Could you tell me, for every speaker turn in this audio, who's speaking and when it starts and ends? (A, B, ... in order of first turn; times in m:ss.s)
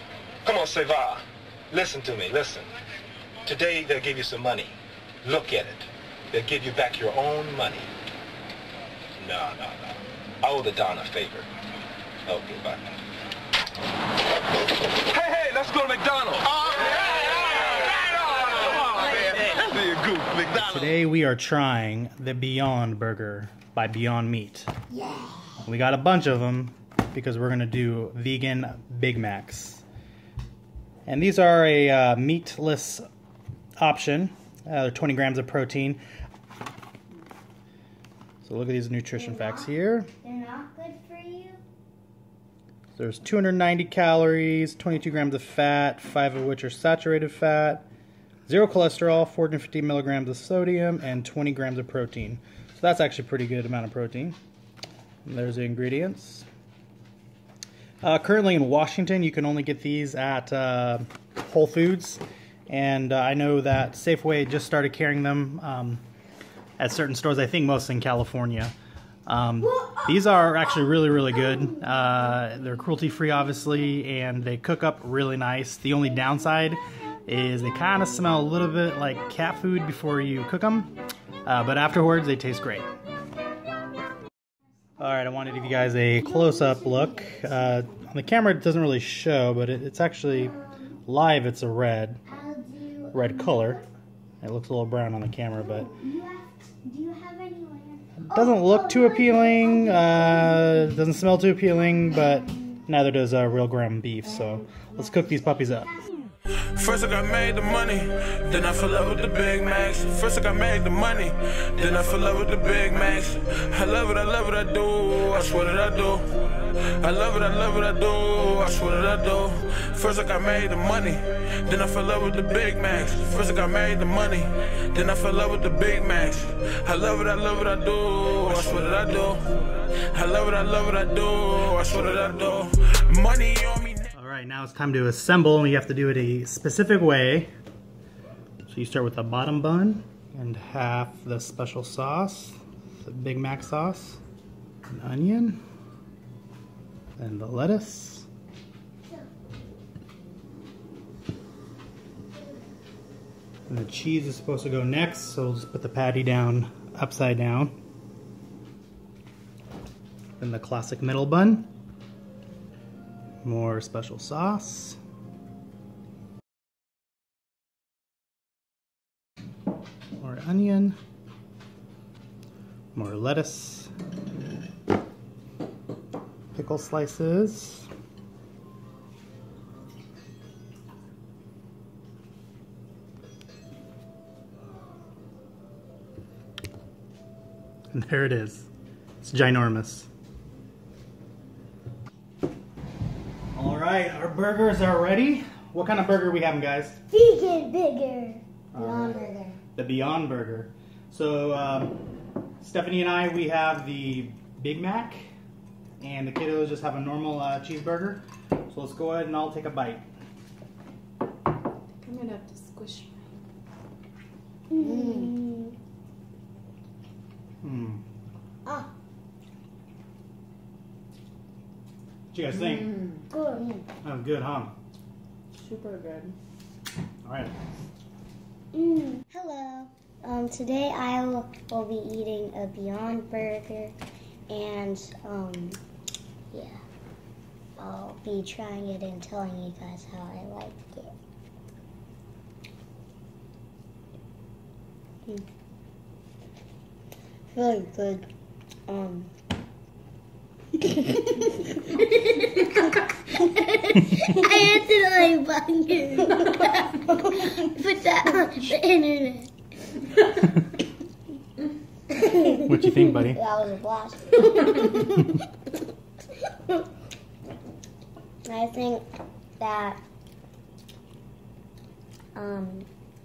0:00.4-0:01.2 A
0:01.7-0:02.7 A
0:03.5-0:07.9 A
0:09.2-0:11.1 A
0:15.1-0:16.8 A
0:18.8-0:20.5 A
0:20.6-0:24.7 B
0:25.6-0:29.8 B
0:31.0-0:33.0 B
0:33.8-0:36.0 B
0:38.4-0:40.1 B
0:39.1-0:41.6 C
0:43.0-0:47.8 B
0:48.4-0:54.4 B
0:55.2-0:56.4 B
0:58.0-1:06.0 B
1:06.8-1:08.7 B
1:09.3-1:20.9 B
1:21.4-1:22.8 B
1:25.0-1:30.5 B
1:31.0-1:32.2 B
1:32.3-1:33.8 C
1:33.1-1:33.8 B
1:34.4-1:35.9 B
1:35.9-1:38.5 C
1:38.2-1:45.9 B
1:46.7-2:14.0 D
2:14.1-2:17.5 B
2:18.7-2:24.2 B
2:24.9-2:25.6 B
2:27.2-2:28.3 B
2:33.7-2:37.8 B
2:40.4-2:41.7 B
2:43.4-2:45.0 B
2:50.2-2:51.0 B
2:52.9-2:53.9 B
2:56.5-2:57.9 B
3:07.9-3:08.7 B
3:09.2-3:10.1 B
3:13.5-3:17.0 B
3:17.1-3:18.2 C
3:18.7-3:22.0 B
3:18.8-3:19.6 C
3:22.6-3:25.3 B
3:26.0-3:30.0 B
3:32.0-3:33.4 E
3:34.7-3:35.5 C
3:37.6-3:38.0 B
3:42.3-3:43.0 B
3:43.3-3:43.8 C
3:44.0-3:44.7 B
3:45.6-3:46.4 E
3:47.2-3:47.5 B
3:48.7-3:53.9 C
3:54.5-3:55.8 C
3:56.5-3:56.8 C
3:57.8-4:01.1 C
4:07.5-4:08.3 C
4:08.9-4:09.3 C
4:10.8-4:19.5 C
4:22.2-4:25.4 C
4:22.6-4:23.4 B
4:28.4-4:29.0 C
4:29.6-4:30.0 C
4:32.4-4:32.9 C